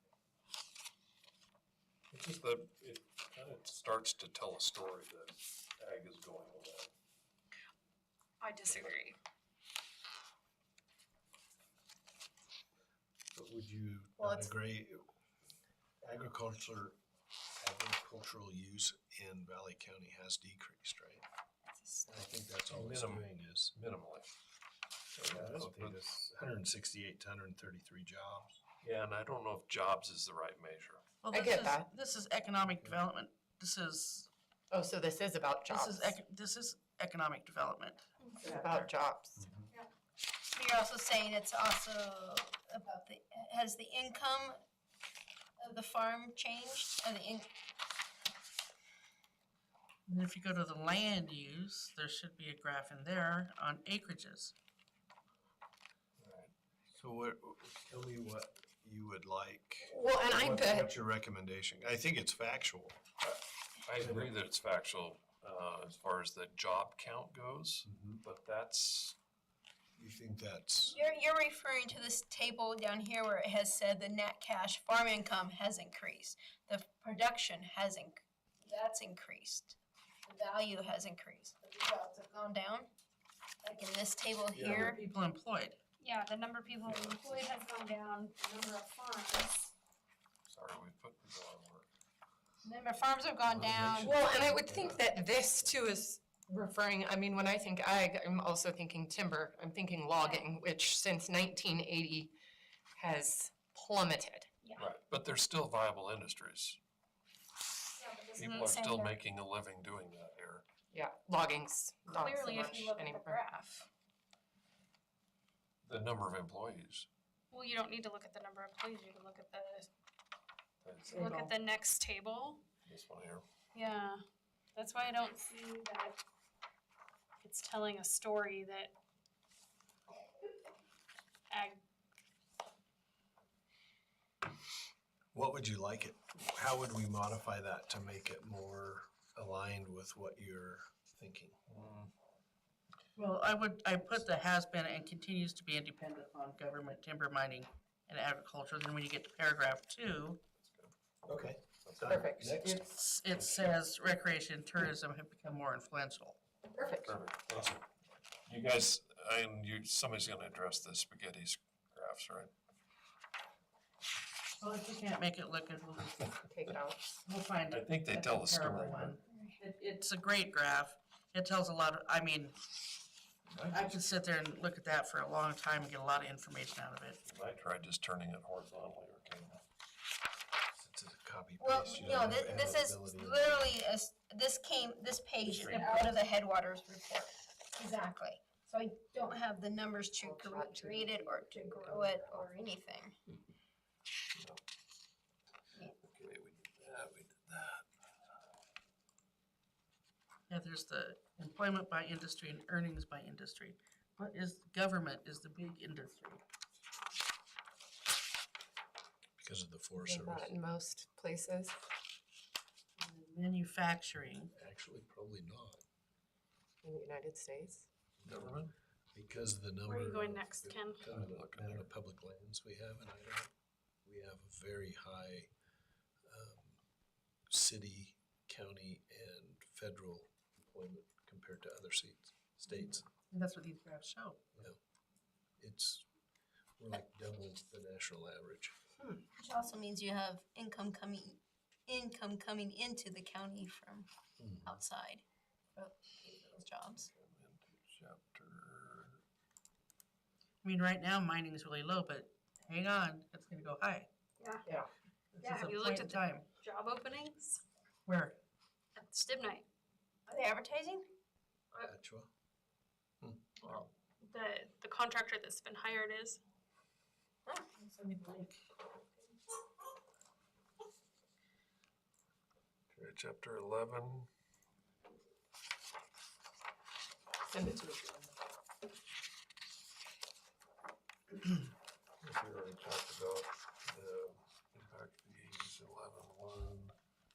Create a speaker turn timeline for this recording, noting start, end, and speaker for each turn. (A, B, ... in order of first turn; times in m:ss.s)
0:02.1-0:06.9 A
0:08.4-0:09.2 B
0:13.3-0:15.0 C
0:14.2-0:14.5 D
0:16.0-0:17.0 C
0:17.6-0:21.3 C
0:22.1-0:23.7 C
0:22.7-0:24.3 A
0:25.1-0:26.1 A
0:25.2-0:28.6 C
0:28.8-0:31.0 A
0:31.2-0:34.3 E
0:31.3-0:31.9 F
0:32.6-0:32.9 C
0:34.7-0:36.2 F
0:35.7-0:38.6 E
0:38.4-0:39.4 F
0:39.4-0:39.7 C
0:40.5-0:44.6 D
0:45.6-0:47.5 D
0:50.1-0:54.5 E
0:56.2-0:56.5 A
0:56.9-1:03.0 C
0:59.8-1:00.9 F
1:03.8-1:09.2 A
1:04.0-1:04.3 C
1:07.8-1:08.2 C
1:10.0-1:11.0 C
1:10.8-1:22.9 D
1:23.6-1:25.0 D
1:24.6-1:25.8 E
1:24.7-1:25.0 B
1:26.0-1:29.7 B
1:26.8-1:27.5 A
1:30.5-1:31.9 A
1:32.6-1:33.8 D
1:33.5-1:35.0 C
1:34.0-1:42.3 F
1:42.9-1:44.5 F
1:44.8-1:46.8 A
1:47.9-1:49.2 B
1:48.4-1:50.6 A
1:50.9-1:53.6 F
1:52.1-1:53.9 B
1:55.8-1:57.1 A
1:57.5-1:59.9 B
2:00.8-2:01.3 A
2:01.1-2:01.5 E
2:01.1-2:02.6 B
2:02.8-2:03.4 A
2:03.7-2:04.2 B
2:04.7-2:06.2 B
2:07.4-2:08.9 B
2:11.5-2:11.8 B
2:15.3-2:21.6 C
2:21.7-2:22.1 A
2:23.2-2:30.4 E
2:30.6-2:30.9 A
2:31.2-2:32.8 C
2:31.8-2:32.7 A
2:32.0-2:32.8 F
2:32.9-2:36.4 E
2:33.3-2:33.7 A
2:36.7-2:37.2 F
2:37.0-2:37.8 A
2:38.5-2:42.5 A
2:44.6-2:46.4 E
2:46.4-2:47.0 F
2:47.2-2:52.6 E
2:47.7-2:49.2 A
2:53.4-2:54.0 A
2:53.7-2:57.2 E
2:57.2-2:59.6 A
3:00.8-3:03.7 C
3:01.6-3:13.2 D
3:10.2-3:12.5 F
3:14.3-3:14.6 A
3:16.0-3:17.8 A
3:20.5-3:26.4 E
3:29.4-3:30.6 C
3:29.9-3:31.8 F
3:33.0-3:34.5 E
3:34.5-3:35.8 C
3:36.8-3:37.9 F
3:38.2-3:43.5 C
3:38.2-3:38.7 A
3:39.9-3:41.1 B
3:41.1-3:41.9 A
3:44.0-3:45.5 C
3:46.3-3:46.8 C
3:47.5-3:53.1 C
3:53.3-3:54.4 E
3:55.6-3:56.0 C
3:56.8-3:58.7 C
3:59.4-4:04.1 D
4:04.4-4:04.8 C
4:04.6-4:05.2 D
4:05.8-4:07.1 D
4:07.0-4:09.2 A
4:10.6-4:14.1 E
4:15.3-4:16.4 E
4:15.4-4:17.6 B
4:18.0-4:18.4 E
4:19.0-4:19.6 B
4:20.3-4:21.0 D
4:21.8-4:22.3 C
4:23.6-4:23.9 A
4:24.2-4:26.4 B
4:27.7-4:28.6 E
4:32.9-4:34.3 A
4:37.5-4:38.3 F
4:42.2-4:46.9 A